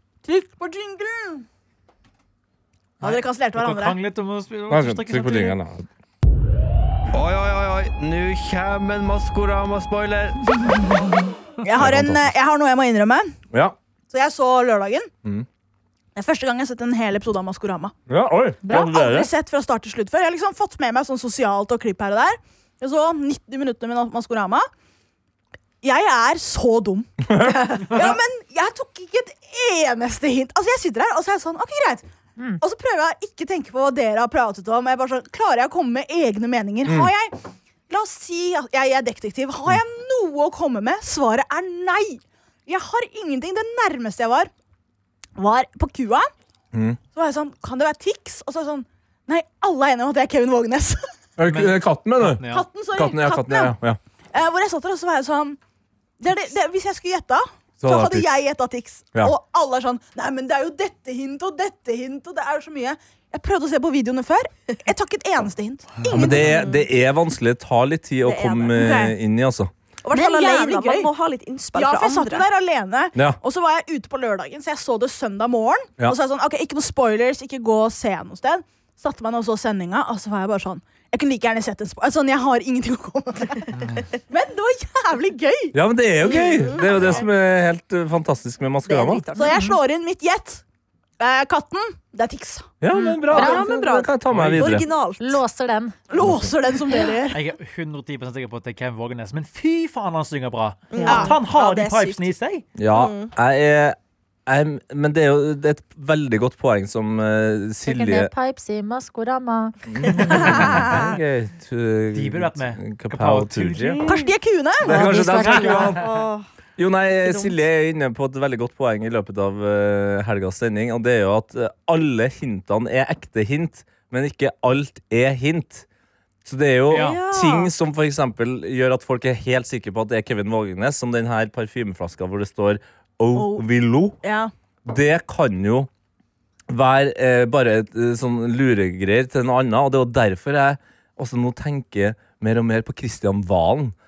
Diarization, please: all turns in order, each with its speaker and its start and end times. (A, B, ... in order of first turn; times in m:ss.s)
0:00.2-0:01.4 A
0:03.0-0:04.0 A
0:03.0-0:05.6 B
0:04.7-0:05.8 C
0:07.1-0:10.9 D
0:11.6-0:13.3 A
0:11.8-0:12.4 C
0:13.5-0:13.8 C
0:14.1-0:15.1 A
0:16.1-0:17.9 A
0:18.1-0:19.3 C
0:18.7-0:24.7 A
0:25.8-0:32.0 A
0:27.3-0:28.1 C
0:32.4-0:32.6 E
0:32.6-0:37.4 A
0:36.8-0:37.1 C
0:37.9-0:44.5 A
0:45.4-0:46.3 A
0:46.7-0:47.0 C
0:47.1-0:51.1 A
0:51.4-0:52.4 C
0:51.5-0:52.7 B
0:52.4-0:53.7 A
0:52.9-0:54.0 C
0:54.3-0:55.6 A
0:56.2-1:06.6 A
0:57.8-0:58.3 C
1:06.1-1:09.7 C
1:06.5-1:06.8 F
1:08.2-1:08.8 F
1:08.7-1:09.2 A
1:10.0-1:12.4 F
1:10.1-1:11.1 A
1:11.7-1:23.7 A
1:23.7-1:24.0 B
1:24.3-1:26.5 A
1:25.7-1:29.2 C
1:26.2-1:27.2 F
1:26.9-1:27.2 B
1:28.8-1:29.6 F
1:29.4-1:30.6 A
1:29.4-1:29.7 E
1:31.2-1:32.7 A
1:32.8-1:34.8 C
1:32.9-1:33.6 E
1:33.3-1:35.4 F
1:34.3-1:34.8 B
1:35.2-1:36.0 E
1:36.1-1:37.4 A
1:36.2-1:36.5 C
1:37.3-1:42.7 B
1:40.9-1:42.3 F
1:41.0-1:41.3 E
1:41.1-1:41.4 A
1:42.8-1:48.3 C
1:42.9-1:43.3 F
1:47.8-1:50.6 E
1:49.9-1:54.0 C
1:50.2-1:51.0 F
1:52.1-1:54.2 B
1:54.0-1:55.1 A
1:54.8-1:56.1 C
1:54.9-1:56.0 E
1:54.9-1:56.0 B
1:55.9-1:56.5 F
1:56.8-2:05.8 C
2:06.4-2:14.2 C
2:06.9-2:07.2 B
2:06.9-2:07.7 F
2:13.3-2:13.6 A
2:14.2-2:14.5 A
2:14.8-2:15.9 C
2:16.7-2:24.0 C